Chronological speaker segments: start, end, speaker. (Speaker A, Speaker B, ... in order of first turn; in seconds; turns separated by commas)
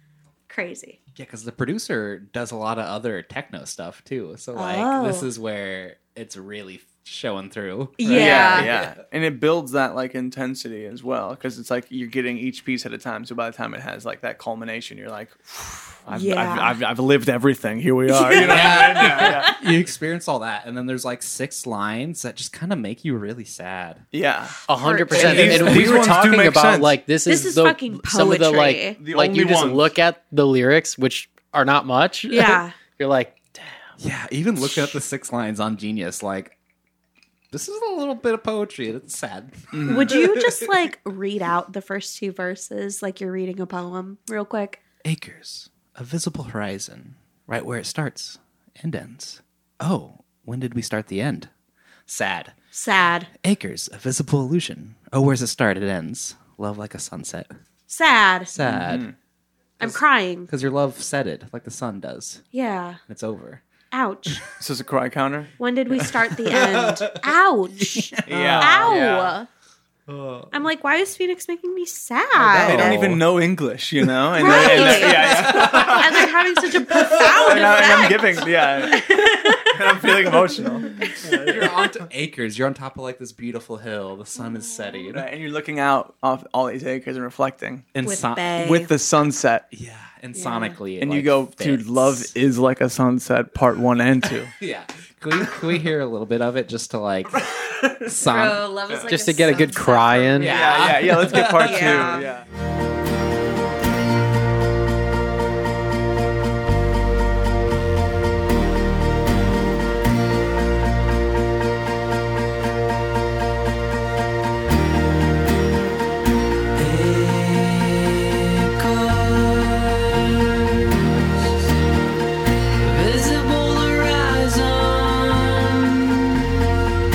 Speaker A: 0.5-1.0, Speaker B: 1.1-9.0, Speaker A: 4.5-5.3, Speaker A: 8.0-8.7, Speaker C: 8.1-19.6, Speaker A: 16.1-16.8, Speaker A: 18.1-19.6, Speaker B: 18.3-24.0, Speaker C: 24.1-27.0, Speaker D: 24.7-33.8, Speaker A: 24.8-25.9, Speaker B: 25.2-26.1, Speaker A: 27.3-29.0, Speaker C: 29.0-29.9, Speaker A: 32.3-32.8, Speaker B: 34.0-36.5, Speaker B: 37.5-40.9, Speaker C: 39.7-40.2, Speaker A: 39.9-44.8, Speaker B: 45.0-51.5, Speaker B: 52.1-52.5, Speaker A: 52.7-53.3, Speaker B: 53.4-57.5, Speaker A: 57.9-58.6, Speaker B: 58.5-59.1, Speaker C: 58.6-59.1, Speaker A: 59.8-60.5, Speaker B: 60.5-62.4, Speaker A: 62.5-63.0, Speaker B: 63.1-63.6, Speaker A: 63.9-64.5, Speaker C: 64.6-65.5, Speaker A: 65.6-69.5, Speaker B: 66.5-67.1, Speaker B: 67.9-69.0, Speaker C: 68.3-69.3, Speaker B: 70.1-70.5, Speaker A: 70.5-73.2, Speaker B: 72.4-73.2, Speaker C: 72.4-76.3, Speaker A: 74.3-81.6, Speaker B: 74.4-76.3, Speaker B: 76.9-77.8, Speaker C: 77.1-81.8, Speaker B: 81.2-85.3, Speaker C: 85.1-87.9, Speaker B: 88.0-88.5, Speaker A: 88.0-88.9, Speaker C: 88.6-89.7, Speaker B: 89.7-92.3, Speaker A: 90.3-90.8, Speaker C: 91.0-94.5, Speaker B: 94.6-97.5, Speaker C: 97.4-98.1, Speaker B: 98.0-98.7, Speaker A: 98.2-100.9, Speaker D: 99.1-100.6, Speaker B: 100.4-102.2, Speaker C: 100.4-102.5, Speaker A: 101.5-102.3, Speaker E: 116.8-121.6, Speaker E: 122.8-126.6